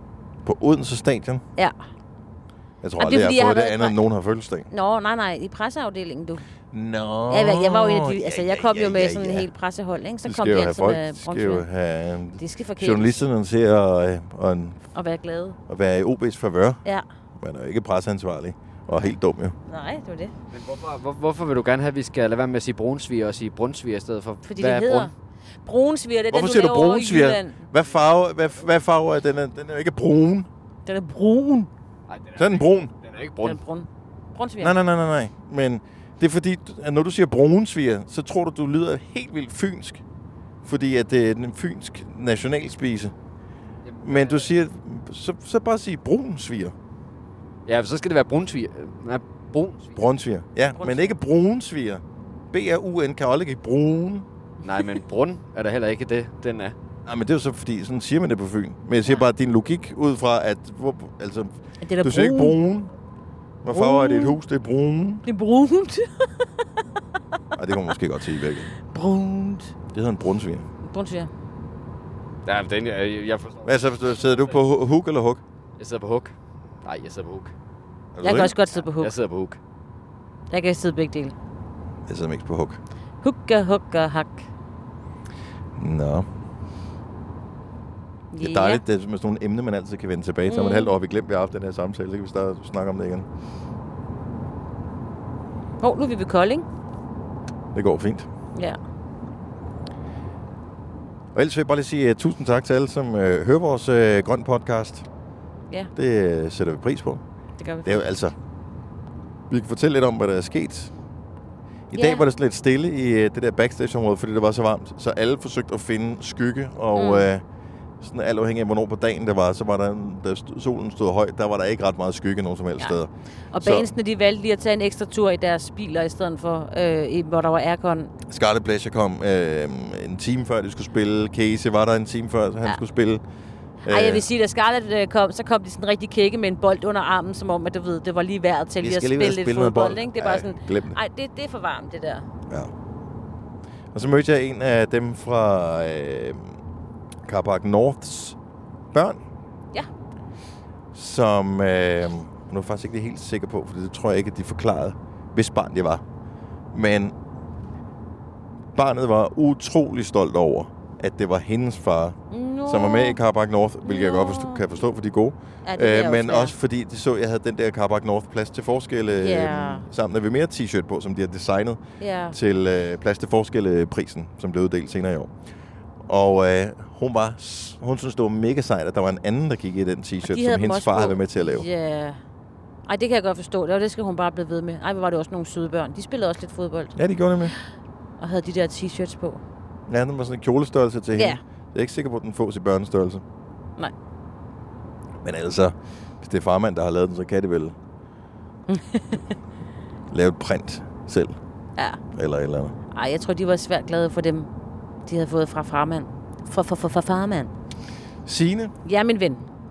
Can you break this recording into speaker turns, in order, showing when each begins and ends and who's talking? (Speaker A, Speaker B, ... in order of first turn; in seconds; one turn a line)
Speaker A: 0.4-1.4
Speaker A: 2.8-4.7
Speaker B: 3.0-4.0
Speaker B: 4.7-6.4
Speaker A: 6.7-9.5
Speaker B: 7.3-11.6
Speaker A: 10.2-14.8
Speaker B: 12.4-13.2
Speaker B: 14.9-15.6
Speaker A: 15.7-16.8
Speaker A: 17.4-19.6
Speaker B: 19.7-20.3
Speaker C: 20.5-25.1
Speaker B: 24.4-25.1
Speaker B: 25.6-27.6
Speaker A: 26.3-30.5
Speaker B: 30.9-31.7
Speaker C: 32.1-33.6
Speaker A: 32.4-32.9
Speaker B: 33.4-34.7
Speaker A: 34.6-40.0
Speaker A: 40.6-43.1
Speaker C: 43.8-44.5
Speaker A: 44.0-46.7
Speaker C: 47.6-50.0
Speaker A: 50.0-54.3
Speaker B: 50.8-51.1
Speaker C: 54.6-56.8
Speaker A: 57.0-62.9
Speaker B: 61.8-62.6
Speaker A: 63.6-65.2
Speaker B: 63.7-64.4
Speaker B: 65.2-66.5
Speaker A: 67.5-68.7
Speaker B: 68.8-69.7
Speaker A: 69.9-70.7
Speaker B: 70.8-71.3
Speaker C: 72.5-74.6
Speaker A: 73.6-75.4
Speaker C: 75.8-77.5
Speaker A: 78.1-78.5
Speaker B: 78.2-79.1
Speaker C: 78.8-79.6
Speaker B: 80.5-81.3
Speaker A: 82.1-82.8
Speaker B: 83.2-84.5
Speaker A: 85.8-86.2
Speaker B: 88.3-88.8
Speaker A: 88.4-93.3
Speaker B: 90.5-90.9
Speaker B: 95.8-96.7
Speaker A: 97.7-98.3
Speaker A: 101.3-105.0
Speaker A: 105.9-107.2
Speaker B: 107.6-108.0
Speaker A: 107.8-108.3
Speaker A: 109.5-110.9
Speaker A: 111.9-117.4
Speaker B: 111.9-112.3
Speaker B: 116.9-117.3
Speaker A: 118.0-123.1
Speaker B: 123.5-128.1
Speaker A: 123.6-123.9
Speaker A: 128.3-133.2
Speaker A: 133.8-134.3
Speaker B: 133.8-142.2
Speaker A: 138.8-141.0
Speaker A: 143.9-146.6
Speaker A: 147.2-148.4
Speaker A: 148.9-149.2
Speaker A: 150.9-156.0
Speaker A: 156.7-157.1
Speaker A: 158.7-175.3
Speaker B: 162.3-163.2
Speaker B: 163.8-164.6
Speaker B: 165.7-166.5
Speaker B: 169.2-169.9
Speaker B: 172.0-172.3
Speaker A: 176.1-181.7
Speaker B: 180.2-182.2
Speaker B: 182.9-186.9
Speaker A: 186.9-187.5
Speaker B: 188.2-189.4
Speaker A: 189.9-193.2
Speaker B: 191.1-191.4
Speaker A: 195.2-197.8
Speaker B: 198.7-199.2
Speaker A: 200.1-201.4
Speaker A: 202.1-202.7
Speaker B: 202.9-204.5
Speaker B: 205.1-207.5
Speaker A: 208.2-208.7
Speaker B: 208.8-209.5